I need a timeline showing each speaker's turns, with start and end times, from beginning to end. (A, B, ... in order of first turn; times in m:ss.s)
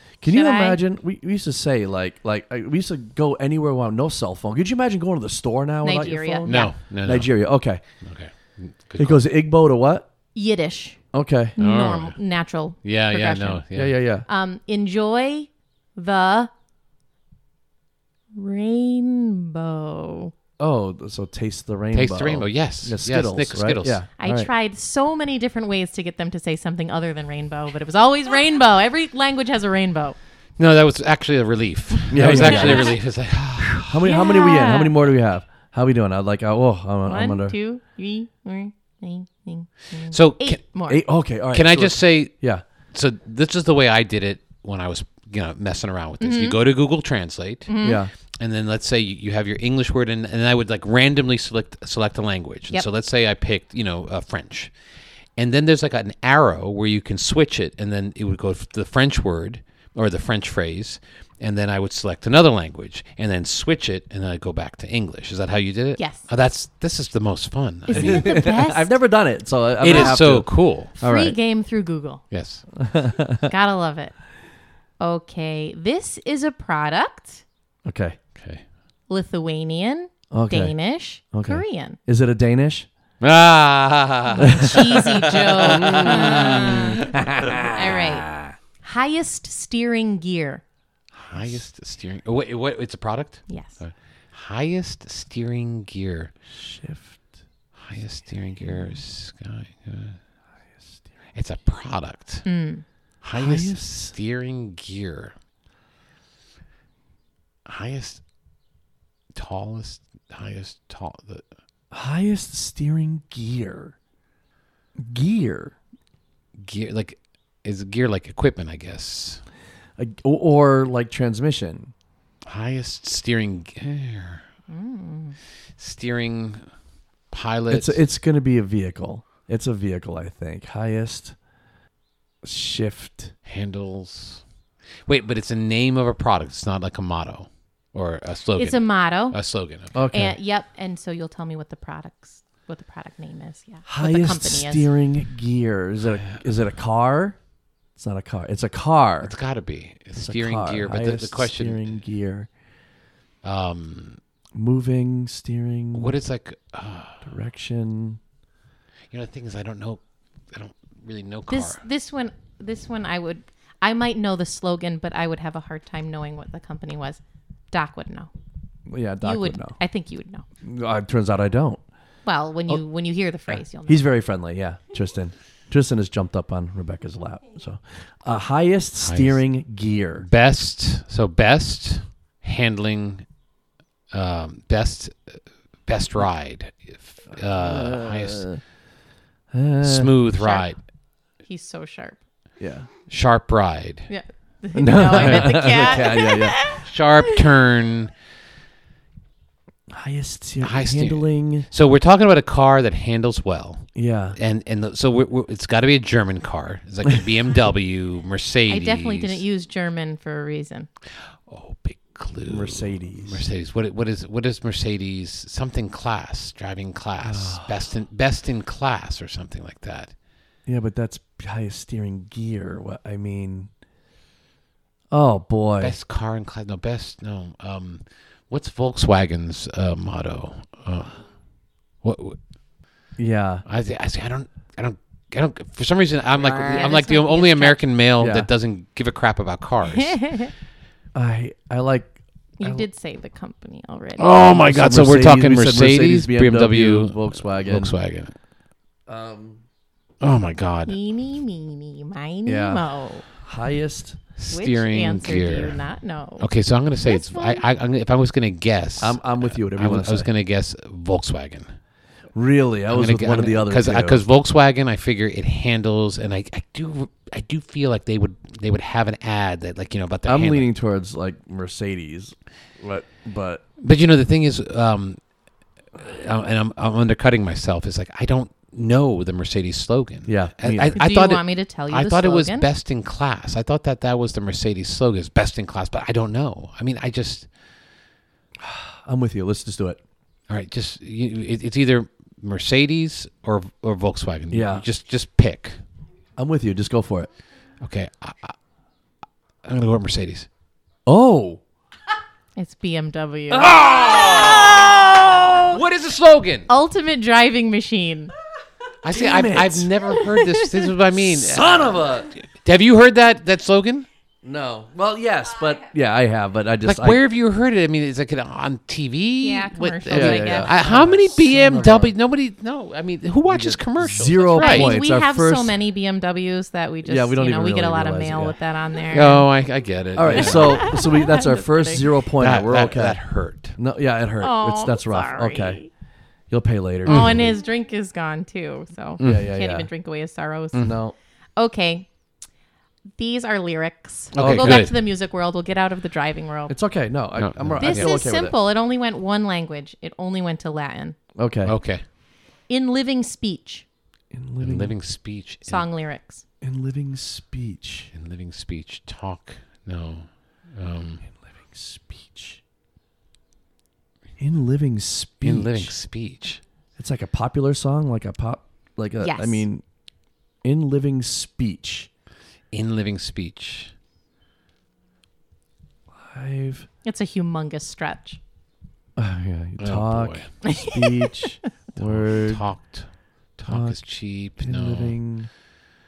0:00.2-0:07.8 A
0:00.3-0:00.8 B
0:05.8-0:06.7 B
0:06.4-0:07.4 C
0:08.0-0:09.2 C
0:09.0-0:10.1 A
0:10.4-0:11.0 B
0:11.1-0:11.6 A
0:11.6-0:12.2 C
0:11.6-0:13.6 B
0:12.8-0:14.0 C
0:13.7-0:14.3 A
0:14.3-0:16.5 B
0:18.3-0:20.3 B
0:20.6-0:24.5 A
0:21.9-0:24.0 C
0:24.2-0:30.2 B
0:30.6-0:34.2 C
0:32.1-0:33.0 A
0:32.2-0:33.0 B
0:33.7-0:37.6 A
0:34.0-0:35.0 B
0:37.1-0:41.0 B
0:40.1-0:40.6 C
0:40.9-0:42.6 A
0:41.5-0:42.3 C
0:42.9-0:47.8 C
0:46.2-0:46.6 B
0:47.7-0:48.0 B
0:47.8-0:48.1 A
0:48.4-0:54.7 C
0:55.4-1:08.4 C
1:06.0-1:06.2 B
1:07.9-1:08.9 B
1:07.9-1:11.4 A
1:09.8-1:10.9 C
1:09.9-1:10.2 B
1:11.0-1:12.2 B
1:12.3-1:12.6 C
1:12.8-1:13.5 A
1:13.5-1:14.1 B
1:15.0-1:17.4 B
1:17.8-1:18.2 A
1:18.4-1:18.6 C
1:19.1-1:22.0 B
1:20.3-1:20.8 A
1:21.3-1:22.9 A
1:23.2-1:27.7 C
1:24.4-1:24.7 A
1:24.4-1:27.0 B
1:25.6-1:28.6 A
1:27.7-1:28.3 B
1:28.8-1:30.6 B
1:31.2-1:36.3 C
1:33.5-1:33.8 B
1:36.5-1:37.2 A
1:37.8-1:40.2 C
1:41.3-1:42.5 C
1:42.4-1:42.8 B
1:43.2-1:45.4 C
1:43.4-1:44.1 A
1:47.7-1:48.2 C
1:49.4-1:51.5 C
1:51.9-1:53.9 A
1:55.0-1:55.8 A
1:56.6-1:59.4 C
2:00.0-2:01.9 A
2:02.4-2:04.4 C
2:04.7-2:05.4 B
2:05.8-2:06.6 C
2:07.3-2:08.0 C
2:07.7-2:11.4 A
2:12.4-2:13.3 A
2:13.5-2:14.4 C
2:15.1-2:20.0 C
2:18.6-2:19.4 B
2:20.0-2:20.4 A
2:20.1-2:24.9 B
2:23.9-2:27.4 A
2:28.0-2:29.3 A
2:29.2-2:31.9 C
2:30.2-2:32.5 A
2:33.4-2:34.2 C
2:34.6-2:36.2 A
2:35.9-2:37.3 C
2:37.2-2:38.2 A
2:39.1-2:41.8 C
2:41.5-2:48.3 B
2:48.9-2:49.8 A
2:49.2-2:50.4 B
2:50.6-2:51.8 A
2:52.3-2:54.1 B
2:53.5-3:00.3 A
2:59.0-2:59.4 C
3:00.2-3:03.2 C
3:04.1-3:08.5 C
3:07.5-3:08.6 A
3:09.5-3:10.2 A
3:09.8-3:10.8 C
3:10.4-3:10.7 B
3:11.4-3:12.2 B
3:12.6-3:12.9 A
3:13.1-3:14.1 C
3:14.1-3:17.6 B
3:14.7-3:16.6 A
3:15.2-3:15.5 C
3:16.8-3:18.1 C
3:19.9-3:21.7 A
3:20.6-3:29.4 C
3:24.0-3:24.4 A
3:28.7-3:30.9 B
3:31.5-3:40.1 C
3:32.5-3:33.5 A
3:37.2-3:37.7 A
3:40.7-3:43.7 A
3:45.1-3:46.0 A
3:45.8-3:51.2 C
3:52.0-3:52.4 C
3:53.2-3:53.6 A
3:53.7-4:00.4 C
3:56.4-3:56.9 A
3:56.7-3:57.8 B
3:58.2-3:58.5 A
3:59.9-4:00.5 B
4:01.1-4:02.9 A
4:02.6-4:04.4 B
4:04.2-4:08.3 C
4:04.6-4:08.0 A
4:09.1-4:09.6 A
4:10.2-4:11.0 C
4:10.9-4:13.2 B
4:12.5-4:14.2 A
4:14.4-4:15.8 C
4:14.5-4:16.5 B
4:16.4-4:21.7 C
4:17.0-4:17.6 B
4:19.0-4:20.3 A
4:22.4-4:24.2 A
4:22.9-4:30.7 C
4:30.3-4:33.6 A
4:33.8-4:35.2 C
4:36.0-4:47.5 C
4:40.3-4:41.0 A
4:41.0-4:42.7 B
4:48.6-4:50.0 A
4:50.5-4:55.8 C
4:54.5-4:54.8 A
4:56.4-4:57.3 A
4:57.8-4:58.6 C
4:59.6-5:00.5 C
5:01.1-5:01.6 A
5:02.6-5:03.8 B
5:03.5-5:06.7 C
5:03.6-5:05.8 A
5:04.9-5:05.6 B
5:06.7-5:08.3 B
5:09.0-5:14.1 C
5:09.1-5:09.9 A
5:10.3-5:10.9 B
5:11.1-5:12.3 A
5:14.4-5:17.2 A
5:16.9-5:25.0 C
5:19.4-5:21.8 B
5:20.1-5:22.1 A
5:23.5-5:25.8 A
5:24.6-5:29.5 B
5:27.0-5:28.6 A
5:29.1-5:30.9 C
5:30.1-5:33.2 A
5:30.3-5:32.1 B
5:32.4-5:33.8 C
5:33.8-5:35.8 A
5:34.4-5:35.9 B
5:36.5-5:37.5 A
5:37.1-5:37.5 C
5:37.1-5:41.0 B
5:39.2-5:39.5 C
5:39.2-5:39.9 A
5:40.8-5:41.2 A
5:41.6-5:42.1 B
5:43.2-5:46.8 B
5:44.3-5:45.0 C
5:44.4-5:44.8 A
5:46.7-5:48.6 A
5:47.4-5:48.2 C
5:47.8-5:51.2 B
5:51.4-5:51.8 A
5:51.6-5:52.0 C
5:52.7-5:53.9 B
5:54.3-5:55.0 A
5:54.6-5:55.9 C
5:55.6-5:56.4 B
5:56.6-5:58.1 A
5:58.1-6:01.2 C
6:01.4-6:02.6 A
6:04.4-6:05.9 A
6:05.4-6:06.6 C
6:07.0-6:09.8 A
6:09.2-6:09.6 B
6:10.6-6:12.1 A
6:12.7-6:13.9 C
6:16.1-6:16.9 A
6:17.0-6:18.4 B
6:19.2-6:22.6 A
6:19.8-6:20.5 C
6:20.6-6:21.5 B
6:22.0-6:25.2 C
6:23.7-6:24.0 A
6:24.6-6:25.5 A